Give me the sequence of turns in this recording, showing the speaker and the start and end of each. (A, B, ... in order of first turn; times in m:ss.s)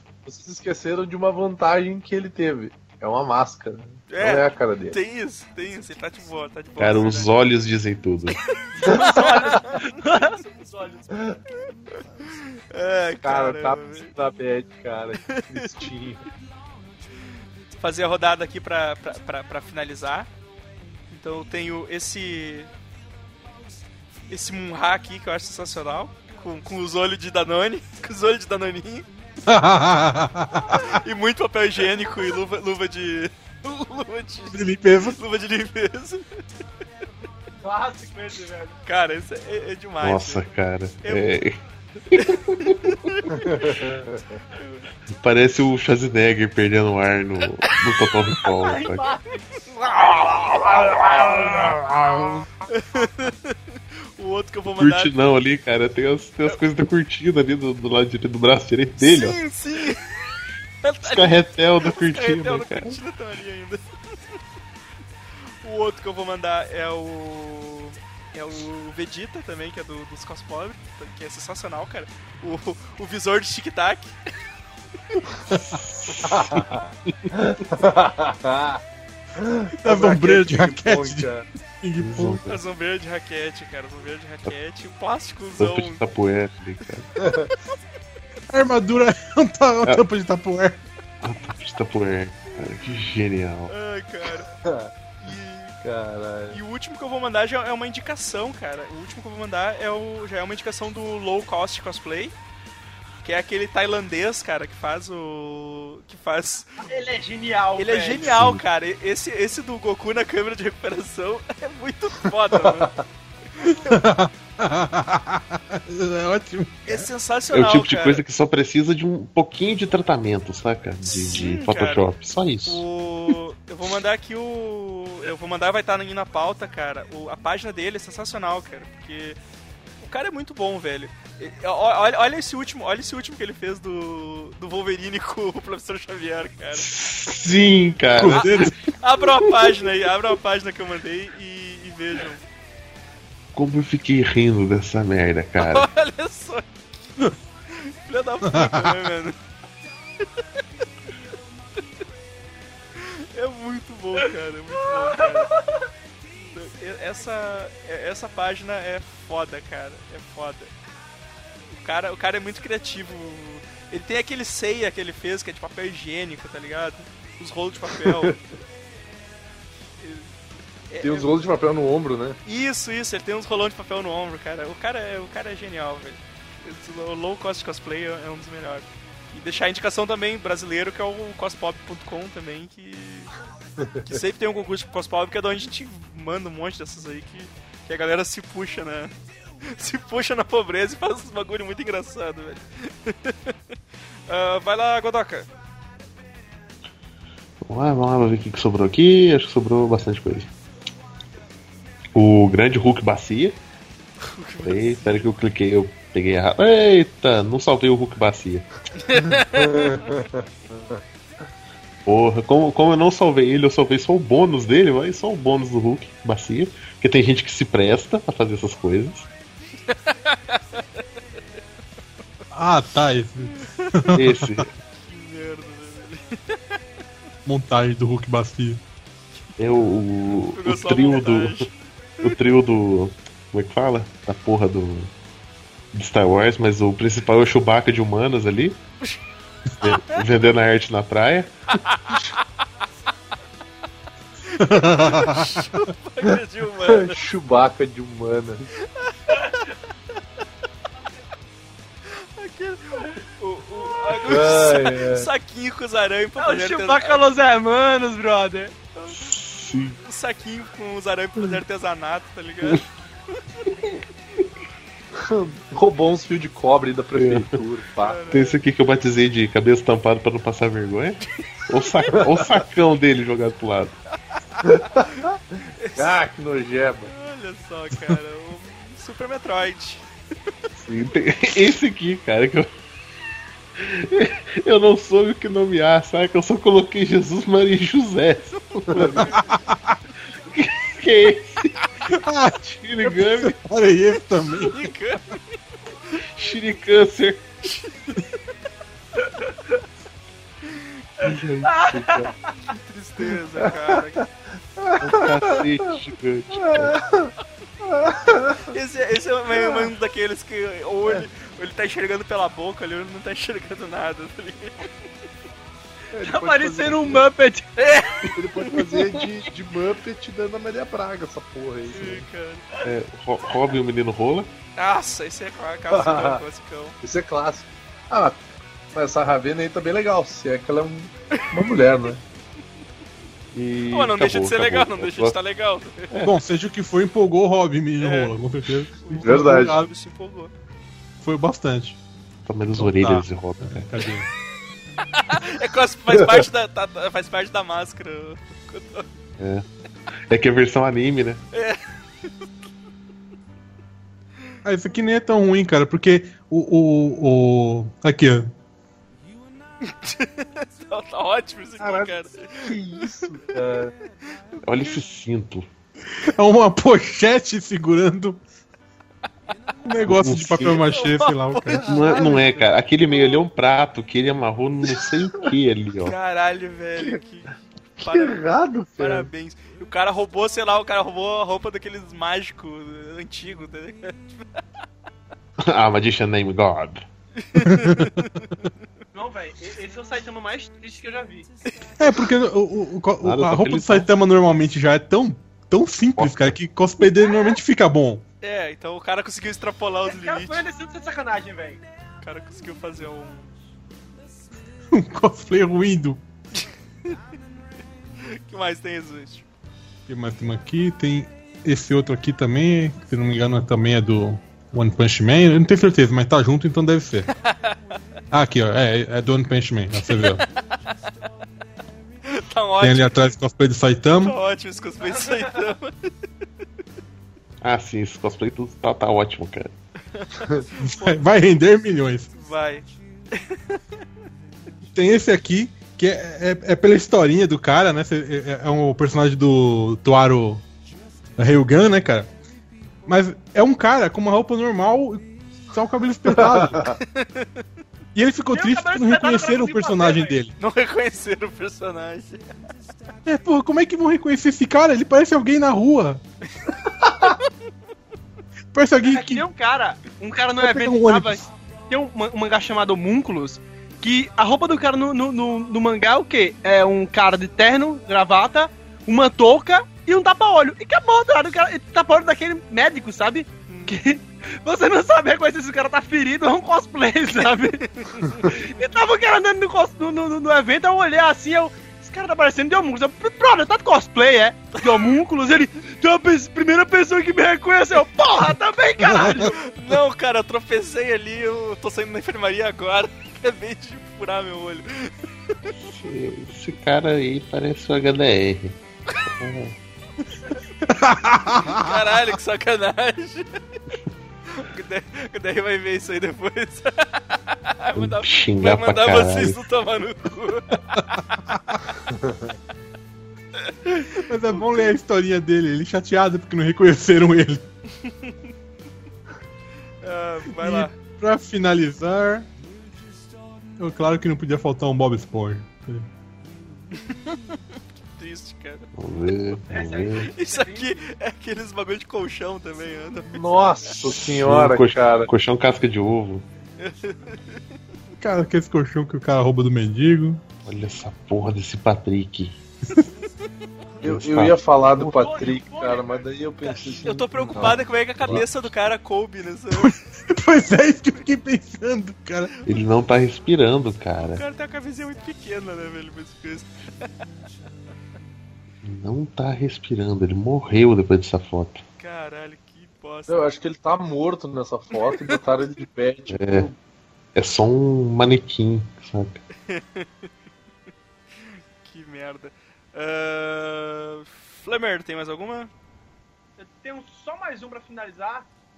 0:00.2-0:05.0 A
0:04.1-0:07.3 B
0:06.8-0:08.4 C
0:08.7-0:11.2 B
0:08.8-0:10.4 D
0:08.8-0:09.2 A
0:11.9-0:14.1 B
0:13.2-0:16.2 A
0:15.2-0:15.7 B
0:17.7-0:20.3 B
0:21.1-0:22.7 B
0:24.3-0:29.1 B
0:29.4-0:31.0 E
0:30.7-0:36.3 B
0:34.5-0:35.2 E
0:37.6-0:38.8 D
0:38.8-0:40.4 B
0:40.0-0:41.6 C
0:41.0-0:41.4 B
0:42.1-0:43.8 B
0:42.1-0:42.9 C
0:43.3-0:44.4 A
0:44.6-0:44.8 B
0:45.1-0:49.1 C
0:48.4-0:49.4 D
0:49.7-0:50.4 B
0:49.9-0:52.0 C
0:50.2-0:51.7 D
0:52.7-0:55.1 B
0:54.8-0:59.4 C
0:59.0-1:00.2 B
1:00.8-1:03.8 B
1:01.0-1:03.0 C
1:05.6-1:14.2 B
1:15.5-1:15.8 E
1:15.7-1:17.4 C
1:16.2-1:18.8 A
1:19.4-1:21.4 A
1:19.8-1:22.5 E
1:22.0-1:22.6 C
1:22.4-1:26.0 B
1:25.6-1:27.1 C
1:27.2-1:27.5 A
1:28.5-1:30.8 E
1:31.2-1:33.7 C
1:33.7-1:34.5 B
1:34.6-1:34.9 A
1:35.2-1:35.8 B
1:35.8-1:36.6 A
1:36.5-1:42.3 B
1:43.2-1:46.8 B
1:46.8-1:48.3 D
1:47.8-1:52.9 B
1:48.2-1:48.6 C
1:52.6-1:53.0 A
1:53.6-1:54.0 B
1:53.6-1:57.1 E
1:56.8-1:58.2 B
1:57.5-2:02.8 C
2:01.0-2:02.1 B
2:02.6-2:09.4 B
2:10.0-2:16.9 B
2:16.8-2:18.7 C
2:18.2-2:18.8 E
2:18.3-2:22.4 B
2:19.4-2:19.8 C
2:23.5-2:25.9 C
2:25.6-2:27.1 B
2:27.7-2:29.4 B
2:28.5-2:28.9 E
2:33.0-2:35.6 B
2:34.8-2:35.8 D
2:36.5-2:40.7 B
2:41.7-2:48.4 B
2:47.9-2:48.3 A
2:50.0-2:50.3 B
2:50.9-2:51.3 B
2:51.0-2:52.4 A
2:52.4-3:03.3 B
3:04.0-3:09.1 B
3:09.6-3:13.6 B
3:14.3-3:15.5 B
3:17.6-3:20.5 C
3:22.1-3:23.6 C
3:24.2-3:25.3 B
3:24.6-3:28.6 C
3:29.0-3:30.2 B
3:29.4-3:31.0 A
3:32.0-3:39.3 C
3:39.9-3:41.0 B
3:42.5-3:44.7 E
3:43.6-3:44.0 B
3:44.1-3:44.7 C
3:45.0-3:46.8 B
3:47.4-3:48.8 E
3:49.6-3:51.6 C
3:50.5-3:51.7 B
3:52.2-3:55.1 C
3:55.9-3:58.8 C
3:59.8-4:01.5 C
3:59.8-4:00.2 B
4:01.7-4:02.4 B
4:04.5-4:07.2 B
4:04.6-4:05.6 E
4:06.8-4:08.6 A
4:08.8-4:09.8 B
4:12.1-4:17.3 B
4:14.0-4:14.5 D
4:14.2-4:15.3 A
4:16.4-4:18.7 D
4:19.1-4:20.0 C
4:20.0-4:23.4 B
4:25.2-4:28.2 A
4:27.1-4:27.6 C
4:28.0-4:28.6 B
4:28.3-4:34.0 C
4:32.1-4:32.6 A
4:34.5-4:35.0 B
4:34.6-4:35.4 A
4:35.8-4:36.2 B
4:36.0-4:37.1 A
4:37.1-4:40.0 B
4:40.8-4:42.7 C
4:43.8-4:49.3 C
4:48.9-4:49.3 A
4:49.3-4:49.8 E
4:50.5-4:51.7 C
4:52.1-4:54.9 E
4:52.6-4:53.6 C
4:54.5-4:55.6 B
4:56.3-4:57.4 C
4:57.6-4:58.4 B
4:59.2-4:59.7 D
5:01.2-5:02.5 D
5:01.2-5:02.3 C
5:02.7-5:04.2 B
5:03.6-5:04.0 A
5:04.8-5:05.7 A
5:05.0-5:07.0 C
5:06.5-5:07.3 A
5:07.8-5:08.7 A
5:08.7-5:14.9 B
5:09.5-5:09.9 A
5:16.1-5:17.2 A
5:16.2-5:17.9 D
5:17.8-5:18.7 B
5:18.3-5:22.2 A
5:21.9-5:22.6 B
5:22.8-5:24.5 C
5:24.8-5:27.0 B
5:25.9-5:26.4 A
5:27.0-5:28.4 A
5:28.9-5:32.2 A
5:33.5-5:35.4 C
5:33.9-5:36.1 B
5:36.1-5:36.4 C
5:36.2-5:39.9 E
5:38.0-5:38.4 B
5:39.0-5:40.5 B
5:39.2-5:39.7 A
5:41.2-5:42.0 E
5:42.4-5:43.9 C
5:42.8-5:44.3 E
5:45.1-5:49.1 B
5:46.1-5:46.4 A
5:49.4-5:49.6 C
5:50.3-5:51.4 C
5:51.5-5:51.8 B
5:54.6-5:58.5 E
5:59.8-6:03.0 B
6:01.8-6:03.9 A
6:04.6-6:05.6 C
6:06.2-6:08.4 E
6:09.8-6:11.9 E
6:10.0-6:10.8 C
6:10.8-6:12.2 B
6:11.7-6:12.7 A
6:11.8-6:16.1 C
6:16.0-6:18.4 B
6:18.0-6:19.3 A
6:19.0-6:24.6 B
6:25.6-6:27.0 C
6:27.4-6:28.7 B
6:27.6-6:28.2 E
6:29.1-6:31.5 D
6:32.0-6:38.2 E
6:33.2-6:34.1 C
6:36.2-6:36.6 C
6:38.4-6:40.6 B
6:40.0-6:41.8 D
6:42.2-6:43.5 B
6:44.9-6:46.2 E
6:46.6-6:47.2 B
6:48.2-6:49.4 B
6:50.1-6:57.3 E
6:57.4-6:57.8 B
6:58.3-7:00.4 E
7:00.1-7:00.3 B
7:02.2-7:03.3 B
7:02.8-7:04.4 E
7:04.2-7:06.1 B
7:05.1-7:05.5 D
7:07.6-7:09.7 C
7:10.1-7:11.2 B
7:10.8-7:12.3 E
7:12.3-7:13.8 B
7:14.9-7:20.6 E
7:21.4-7:22.3 E
7:23.0-7:26.8 E
7:26.3-7:27.0 A
7:27.1-7:27.5 B
7:28.1-7:30.5 E
7:28.5-7:30.4 D
7:30.6-7:32.5 B
7:33.2-7:36.2 E
7:38.7-7:39.4 E
7:39.0-7:57.8 D
7:40.6-7:41.5 E
7:53.7-7:54.0 B
7:58.0-7:58.6 B
7:58.4-8:09.6 D
8:09.1-8:09.5 E
8:09.2-8:15.1 B
8:15.8-8:18.8 C
8:19.3-8:19.8 C
8:20.8-8:22.1 E
8:21.6-8:23.6 B
8:24.5-8:32.0 B
8:27.9-8:29.6 C
8:32.1-8:32.5 A
8:33.6-8:34.9 B
8:34.3-8:37.6 E
8:40.0-8:40.9 B
8:40.5-8:42.5 E
8:43.8-8:46.1 E
8:46.9-8:47.4 B
8:48.0-8:48.9 B
8:49.0-8:50.3 C
8:49.7-8:51.0 D
8:50.2-8:53.7 B
8:53.3-8:55.3 A
8:54.0-8:56.4 C
8:56.8-8:57.6 B
8:58.2-9:00.4 E
9:00.6-9:02.6 C
9:04.0-9:07.8 A
9:04.0-9:05.4 C
9:05.1-9:06.2 D
9:06.6-9:10.0 B
9:07.6-9:08.7 C
9:09.8-9:12.5 E
9:12.6-9:14.4 C
9:14.3-9:17.1 B
9:18.8-9:21.8 C
9:22.0-9:23.5 B
9:23.3-9:26.8 A
9:25.0-9:25.4 B
9:26.3-9:26.7 C
9:27.3-9:29.4 C
9:29.7-9:30.3 B
9:31.4-9:35.7 B
9:36.6-9:38.5 D